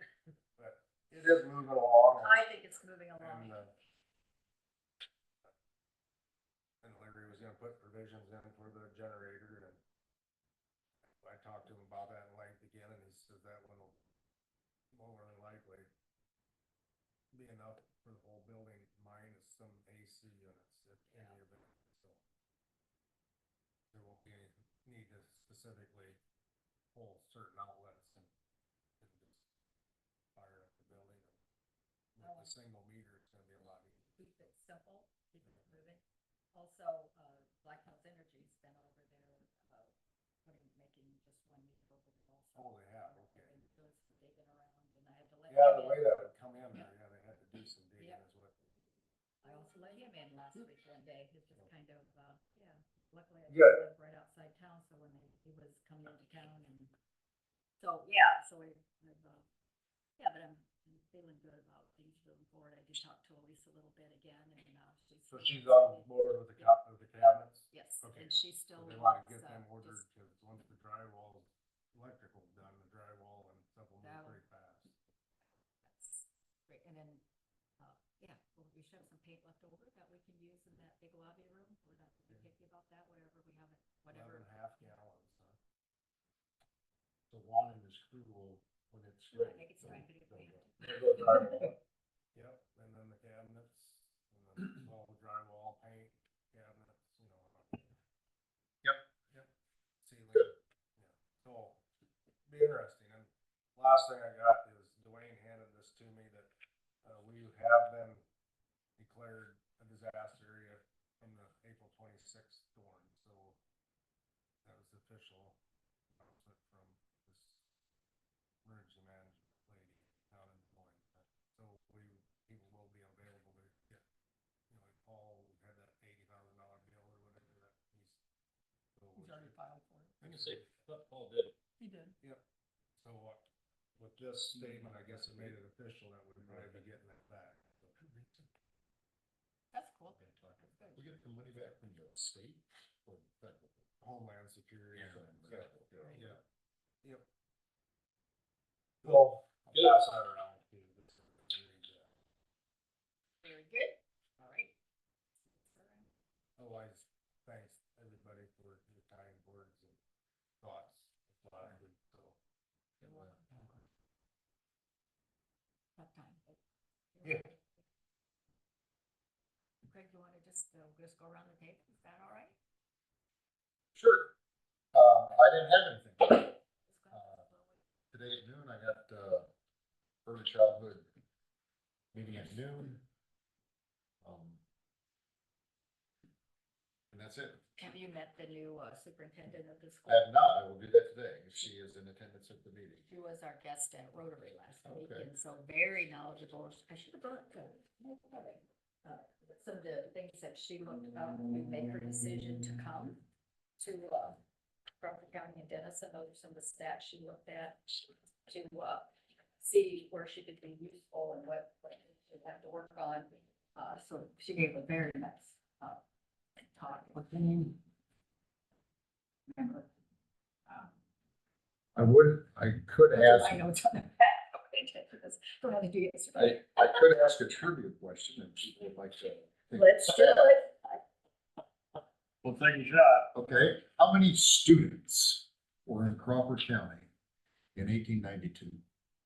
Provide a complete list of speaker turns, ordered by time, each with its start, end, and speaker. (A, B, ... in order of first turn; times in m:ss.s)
0:00.6-0:02.6 A
0:02.2-0:03.6 B
0:03.2-0:03.7 A
0:06.8-0:09.8 A
0:11.1-0:14.0 A
0:14.9-0:15.9 A
0:17.3-0:22.2 A
0:21.1-0:21.4 B
0:23.9-0:26.2 A
0:26.9-0:28.3 A
0:29.0-0:29.5 A
0:30.3-0:31.4 A
0:32.1-0:34.1 A
0:32.2-0:32.6 B
0:34.2-0:36.0 B
0:36.5-0:39.9 B
0:40.4-0:46.1 B
0:42.5-0:43.4 A
0:45.5-0:48.5 A
0:49.4-0:56.9 B
0:53.5-0:53.8 A
0:57.8-0:59.4 B
1:00.2-1:06.7 B
1:05.3-1:15.0 A
1:07.7-1:10.0 B
1:14.0-1:14.4 B
1:15.8-1:17.2 B
1:17.8-1:24.9 B
1:24.1-1:25.6 A
1:27.3-1:31.4 C
1:29.3-1:31.7 B
1:30.8-1:31.7 A
1:32.3-1:38.0 A
1:40.0-1:41.8 A
1:42.5-1:46.5 A
1:47.0-1:48.2 A
1:49.0-1:53.6 A
1:54.6-1:55.6 A
1:56.2-1:57.7 A
1:58.6-2:04.0 A
2:04.7-2:08.2 A
2:08.9-2:09.6 A
2:09.2-2:10.1 B
2:10.2-2:10.7 A
2:10.2-2:11.5 D
2:11.8-2:12.1 B
2:13.0-2:13.4 A
2:14.0-2:18.2 A
2:19.7-2:21.0 B
2:20.1-2:21.1 A
2:21.0-2:23.9 C
2:24.0-2:26.4 A
2:25.0-2:26.2 C
2:26.0-2:26.2 B
2:29.0-2:32.1 A
2:29.0-2:29.9 D
2:33.4-2:34.7 B
2:35.4-2:36.1 B
2:36.6-2:40.0 A
2:40.6-2:42.4 A
2:43.0-2:43.8 B
2:46.0-2:46.6 B
2:47.1-2:47.8 B
2:49.8-2:52.6 B
2:53.9-2:54.3 C
2:54.9-2:56.5 C
2:56.9-2:57.8 B
2:57.1-2:57.4 C
2:58.1-2:59.5 C
3:00.2-3:01.0 C
3:02.1-3:03.0 C
3:04.2-3:04.6 C
3:07.1-3:07.6 C
3:07.8-3:10.2 B
3:10.0-3:13.1 C
3:13.1-3:23.2 B
3:14.8-3:15.3 C
3:23.8-3:24.4 B
3:25.0-3:36.0 B
3:36.6-3:37.8 B
3:39.5-3:39.9 B
3:42.0-3:43.6 C
3:43.1-3:47.0 B
3:46.3-3:50.5 C
3:49.7-3:51.0 B
3:52.4-3:53.3 D
3:53.3-3:57.1 C
3:57.7-3:58.8 C